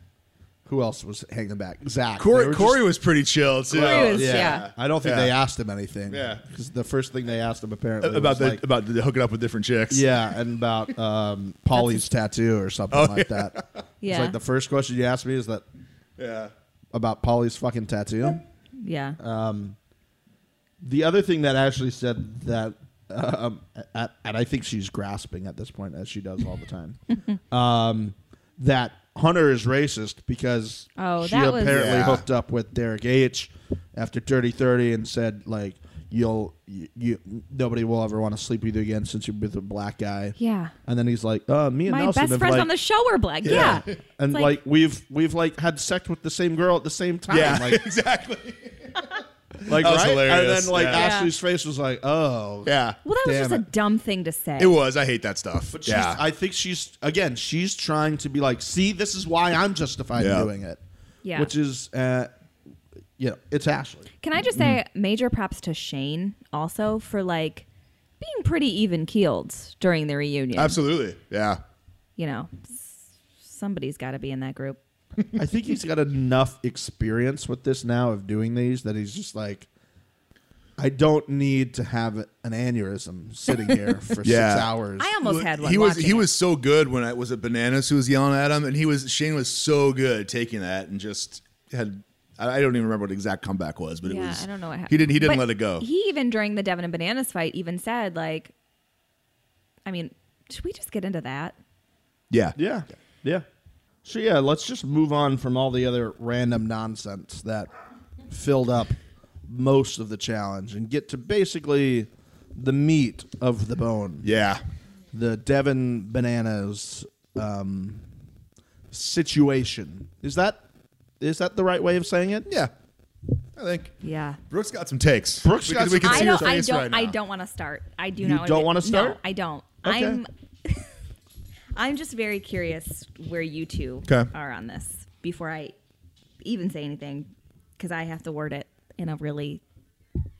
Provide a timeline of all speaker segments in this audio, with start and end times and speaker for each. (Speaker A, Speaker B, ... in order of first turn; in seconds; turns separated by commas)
Speaker A: 0.7-2.8, Speaker B: 2.2-5.3, Speaker A: 3.7-8.6, Speaker C: 3.8-4.7, Speaker B: 6.1-6.4, Speaker B: 8.0-10.2, Speaker A: 9.9-15.6, Speaker B: 12.9-13.8, Speaker C: 14.0-14.3, Speaker B: 16.2-16.5, Speaker A: 16.9-18.4, Speaker C: 18.8-19.2, Speaker A: 19.2-19.8, Speaker A: 20.8-27.0, Speaker A: 27.5-42.7, Speaker C: 31.0-31.8, Speaker B: 31.7-32.2, Speaker C: 40.4-40.7, Speaker C: 41.9-44.5, Speaker B: 43.4-43.9, Speaker A: 43.4-47.8, Speaker B: 47.3-51.1, Speaker A: 49.6-52.7, Speaker C: 50.9-51.3, Speaker B: 52.6-53.0, Speaker C: 53.0-54.7, Speaker A: 53.2-53.6, Speaker B: 54.6-56.2, Speaker A: 55.7-60.8, Speaker B: 60.1-60.5, Speaker C: 61.2-61.5, Speaker A: 61.4-62.3, Speaker A: 63.2-64.1, Speaker C: 64.2-67.7, Speaker C: 68.2-70.8, Speaker B: 70.5-71.6, Speaker C: 72.2-74.8, Speaker A: 75.3-79.7, Speaker A: 80.8-85.1, Speaker B: 84.2-84.7, Speaker C: 85.0-86.3, Speaker B: 85.2-95.8, Speaker C: 94.0-98.5, Speaker C: 99.8-101.5, Speaker B: 102.3-102.5, Speaker A: 102.6-103.4, Speaker A: 104.0-107.7, Speaker A: 108.3-114.3, Speaker B: 114.2-114.6, Speaker A: 115.1-118.0, Speaker A: 118.9-120.6, Speaker A: 121.2-122.5, Speaker B: 122.5-122.7, Speaker B: 123.5-123.9, Speaker C: 124.0-124.4, Speaker B: 124.5-127.2, Speaker A: 125.4-126.5, Speaker C: 126.0-130.9, Speaker A: 128.2-129.2, Speaker A: 129.8-130.2, Speaker C: 131.7-135.7, Speaker C: 136.4-139.6